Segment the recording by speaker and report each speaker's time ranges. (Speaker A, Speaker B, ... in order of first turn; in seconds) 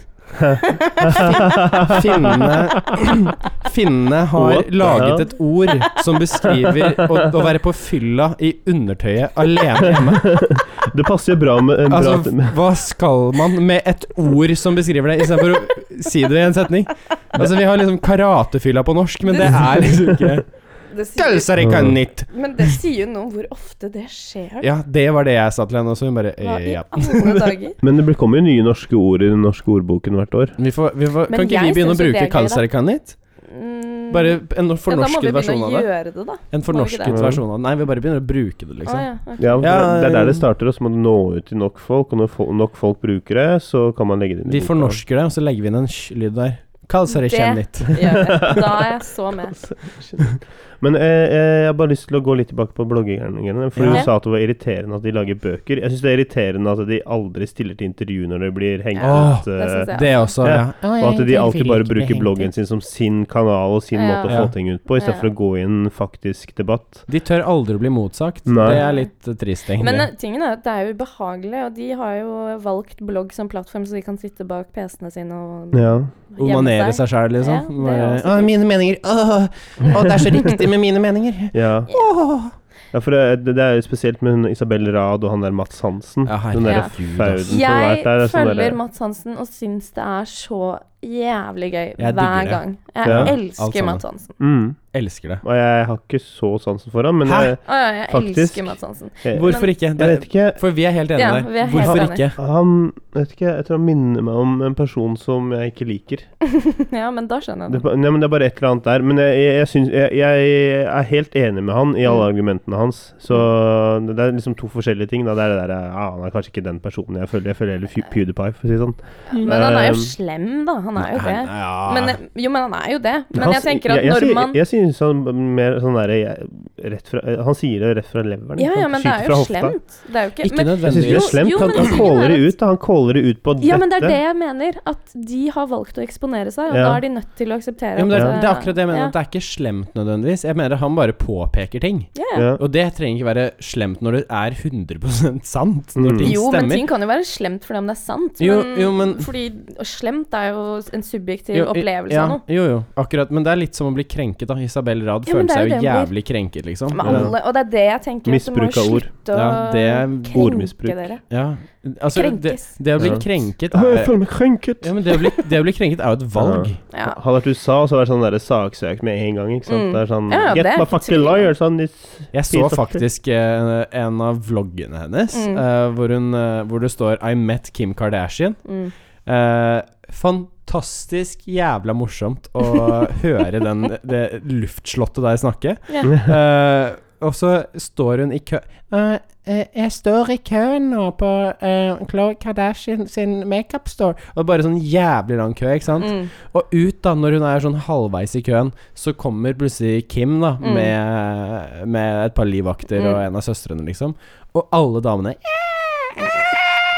Speaker A: 0.4-3.0, 4.3-5.3, 7.0-7.3, 9.9-12.6, 21.6-22.0, 27.8-30.6, 37.1-37.4, 39.4-45.0, 48.0-48.9, 49.4-67.1, 68.5-68.8, 75.7-76.1, 80.0-80.2, 81.5-81.9, 82.9-88.8, 93.0-93.4, 94.4-94.9, 95.4-100.6, 101.7-106.3, 107.7-120.1, 123.3-129.8, 130.8-134.2, 136.7-137.0, 138.1-138.4, 142.3-142.6, 146.0-146.3, 157.0-157.4, 158.3-159.1, 160.3-161.1, 163.0-165.5, 166.4-173.0
Speaker B: 0.8-1.3, 19.3-19.9, 20.9-21.7, 22.3-24.7, 26.4-27.8, 31.3-32.7, 33.5-37.2, 38.9-39.8, 47.1-49.6, 59.0-60.3, 63.9-65.3, 68.6-69.1, 69.8-78.5, 86.7-86.9, 87.5-94.3, 97.6-99.7, 101.2-102.2, 106.5-107.8, 119.3-124.6, 128.6-132.5, 133.6-139.1, 142.2-142.5, 146.2-152.4, 155.3-156.1, 156.9-161.2, 162.1-162.8, 166.9-167.2, 169.7-171.5, 175.3-175.6, 178.7-178.9, 185.9-186.2, 196.0-196.3, 200.6-200.9, 202.9-203.2
Speaker C: 1.0-10.5, 11.9-20.5, 21.2-22.8, 24.6-27.6, 30.6-33.2, 34.1-35.9, 36.5-40.5, 44.5-48.3, 53.8-54.1, 59.0-62.5, 64.3-64.5, 67.1-70.1, 76.4-82.5, 86.3-87.6, 92.0-94.0, 94.9-95.4, 97.2-97.5, 99.3-102.4, 121.0-122.2, 130.4-132.0, 138.0-146.9, 148.4-149.3, 151.5-157.3, 159.3-160.5, 161.3-164.2, 164.8-166.8, 172.3-178.6, 179.3-206.3